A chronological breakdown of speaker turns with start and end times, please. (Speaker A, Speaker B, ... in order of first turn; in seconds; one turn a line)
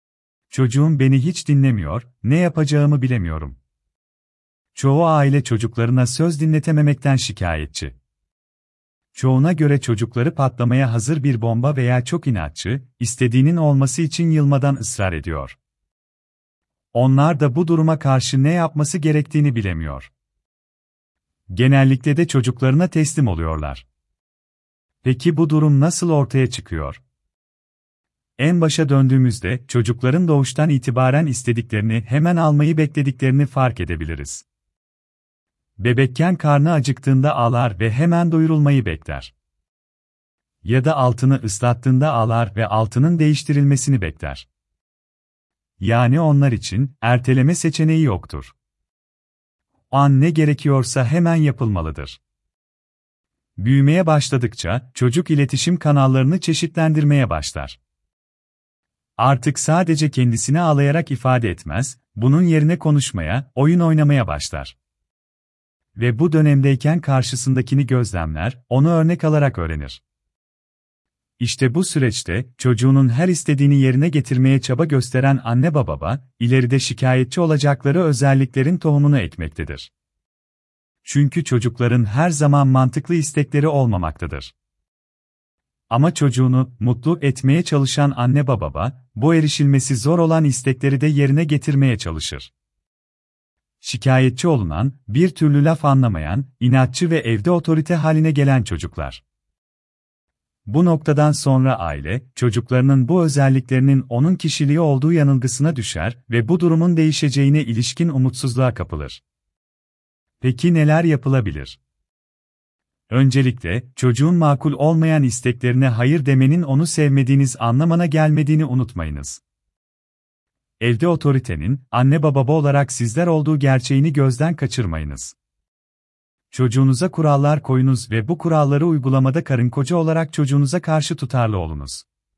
Speaker A: 0.5-3.6
Speaker A: 4.8-8.0
Speaker A: 9.2-15.6
Speaker A: 16.9-20.1
Speaker A: 21.5-23.9
Speaker A: 25.0-27.0
Speaker A: 28.4-34.5
Speaker A: 35.8-39.3
Speaker A: 40.6-44.5
Speaker A: 45.8-48.5
Speaker A: 49.9-52.2
Speaker A: 53.6-57.8
Speaker A: 59.2-64.8
Speaker A: 66.0-70.0
Speaker A: 71.4-79.9
Speaker A: 81.0-84.5
Speaker A: 85.9-92.5
Speaker A: 93.8-99.2
Speaker A: 100.7-109.2
Speaker A: 110.4-111.8
Speaker A: 113.1-119.4
Speaker A: 120.8-125.3
Speaker A: 126.5-132.1